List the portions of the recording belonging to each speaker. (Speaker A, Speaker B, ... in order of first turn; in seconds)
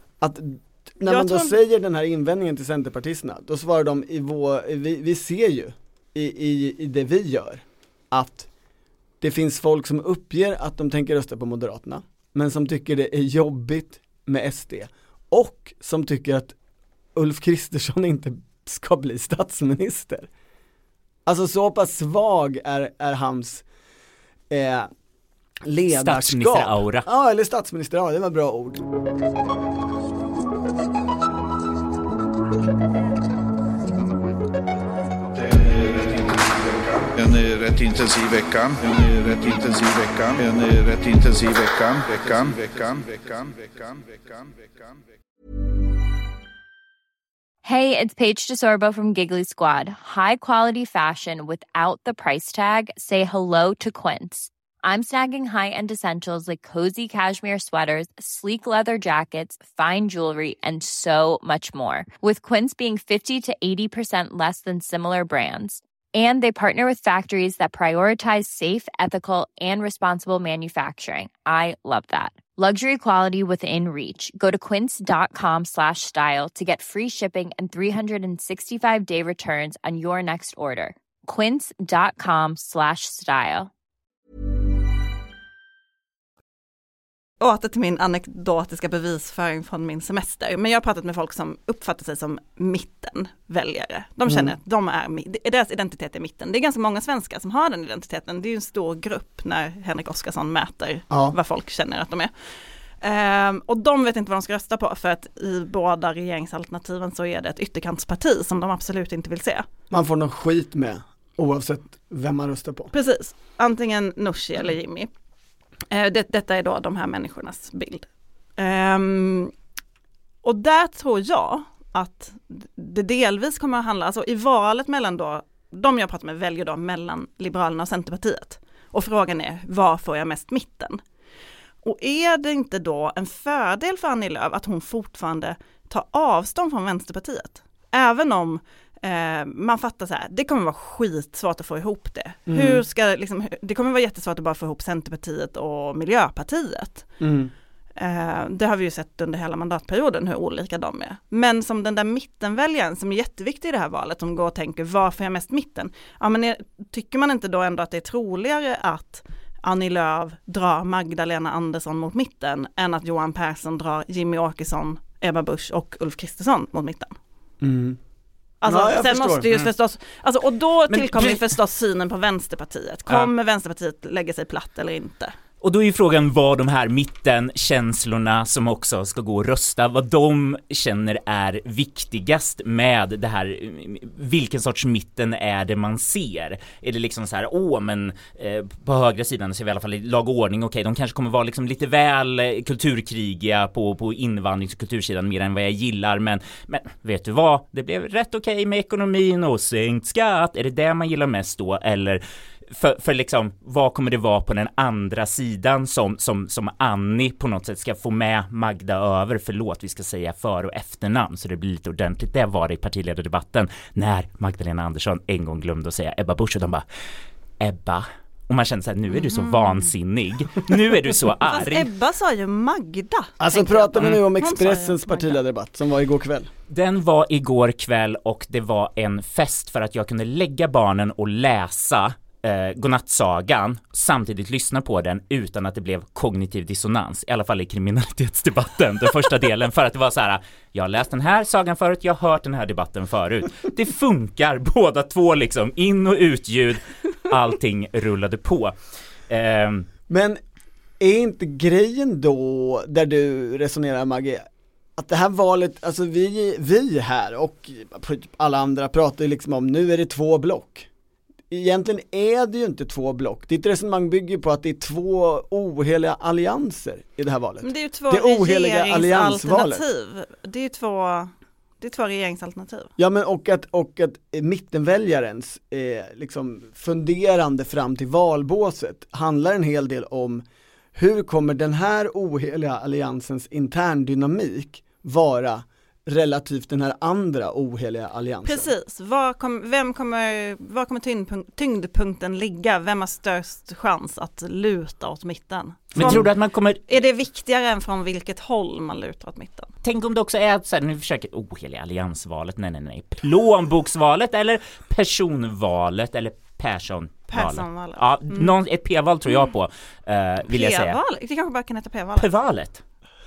Speaker A: 0.2-8.5, 9.2-16.5, 17.1-20.3, 21.2-23.6, 24.5-24.9, 25.6-28.8, 94.3-94.5, 101.1-101.3, 109.9-112.9, 142.5-142.8, 147.2-147.5, 167.6-168.0, 168.7-169.5, 170.9-171.4, 223.4-226.5, 250.1-250.4, 251.0-254.4, 255.0-260.9, 261.5-269.8, 273.0-280.4, 280.9-288.7
Speaker B: 1.1-1.5, 87.4-102.3, 103.0-109.7, 112.9-115.1, 115.9-118.0, 118.6-119.5, 120.4-131.0, 131.8-147.1, 148.0-167.2, 168.6-175.3, 219.3-219.9, 221.4-225.4, 267.6-272.9, 288.4-296.3, 296.9-299.7, 307.3-308.5, 310.5-312.3
Speaker C: 25.9-27.1, 175.6-216.8, 217.6-221.9, 226.7-248.7, 249.3-249.8, 295.9-297.0, 299.8-311.0, 312.2-312.8
Speaker D: 35.3-45.0
Speaker E: 47.6-83.7